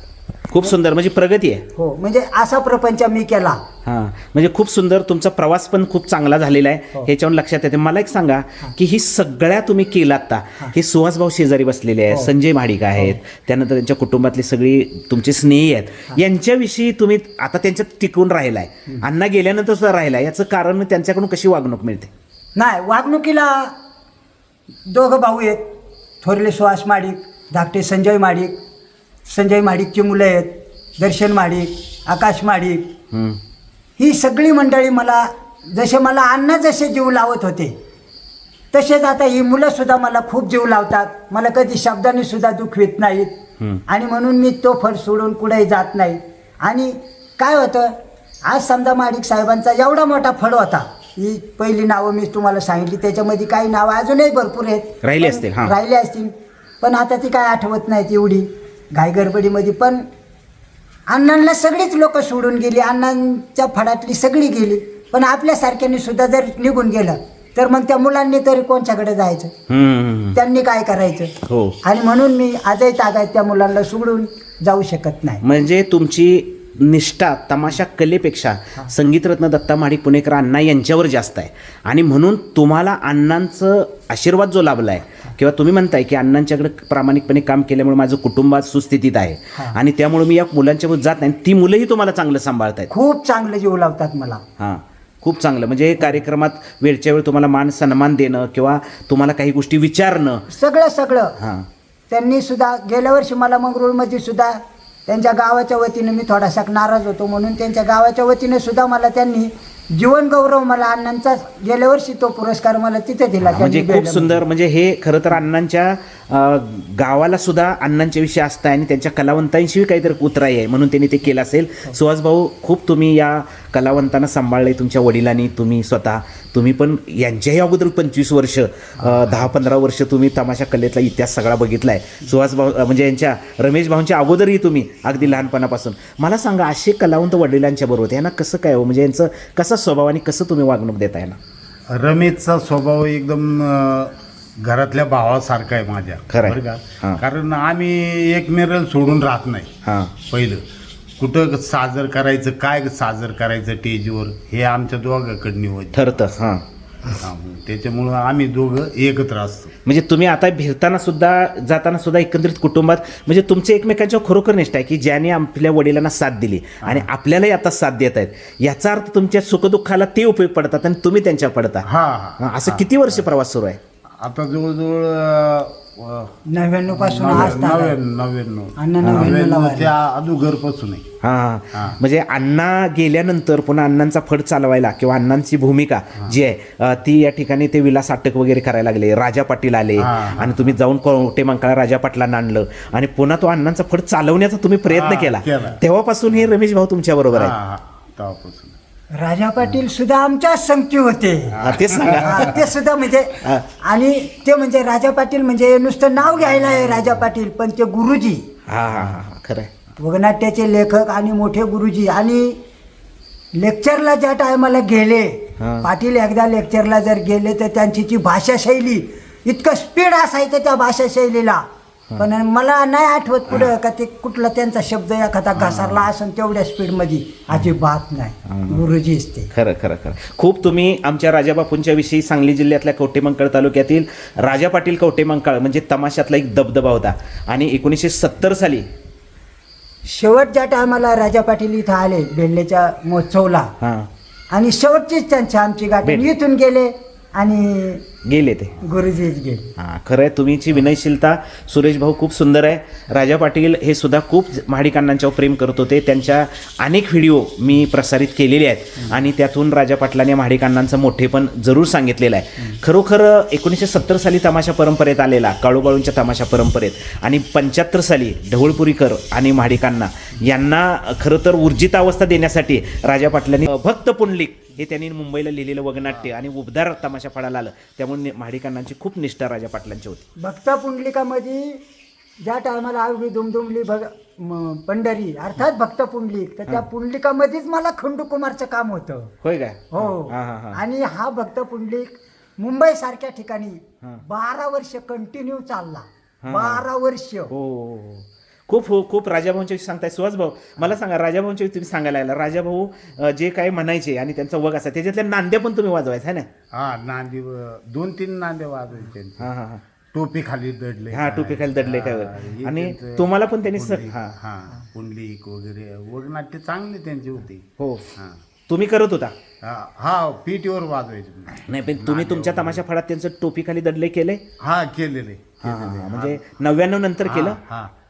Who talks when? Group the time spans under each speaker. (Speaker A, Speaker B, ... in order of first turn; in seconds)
Speaker A: 0.5-1.6, 3.8-22.1, 33.1-33.4, 55.0-55.7, 69.7-70.4, 71.5-71.8, 75.4-92.9, 94.6-100.4, 101.4-101.7, 113.4-141.4, 146.3-147.2, 149.8-150.2, 155.9-156.6, 159.8-171.9, 172.4-173.8, 179.0-179.3, 181.2-197.6, 201.6-202.6, 208.7-209.7, 215.6-215.9, 225.6-226.1, 228.4-228.8, 229.5-238.8, 243.8-244.1, 248.2-248.8, 249.8-280.2, 289.4-290.8, 296.4-296.8, 297.5-306.5, 309.4-309.8, 311.1-314.4, 317.8-318.1, 318.7-319.3, 321.7-324.4, 325.6-327.6
Speaker B: 1.8-3.6, 22.6-23.7, 24.9-25.6, 26.2-28.5, 29.2-32.9, 34.0-37.7, 38.7-43.3, 43.9-47.9, 48.5-60.0, 61.1-69.5, 70.3-75.4, 92.9-94.4, 100.5-101.3, 102.1-114.4, 176.5-178.0, 178.8-179.9, 199.2-208.4, 210.0-212.6, 213.6-221.6, 222.2-229.5, 240.1-243.7, 244.5-248.0, 248.8-249.7, 280.4-281.8, 282.4-289.3, 289.9-297.5
Speaker C: 141.9-149.7, 150.2-150.6, 151.2-156.1, 157.1-159.7, 171.8-173.0, 174.2-176.3, 176.9-181.0, 190.0-190.7, 194.9-195.8, 197.3-198.8, 201.5-202.4, 306.7-309.5, 310.1-318.4, 319.6-322.8, 324.6-326.4, 327.2-327.9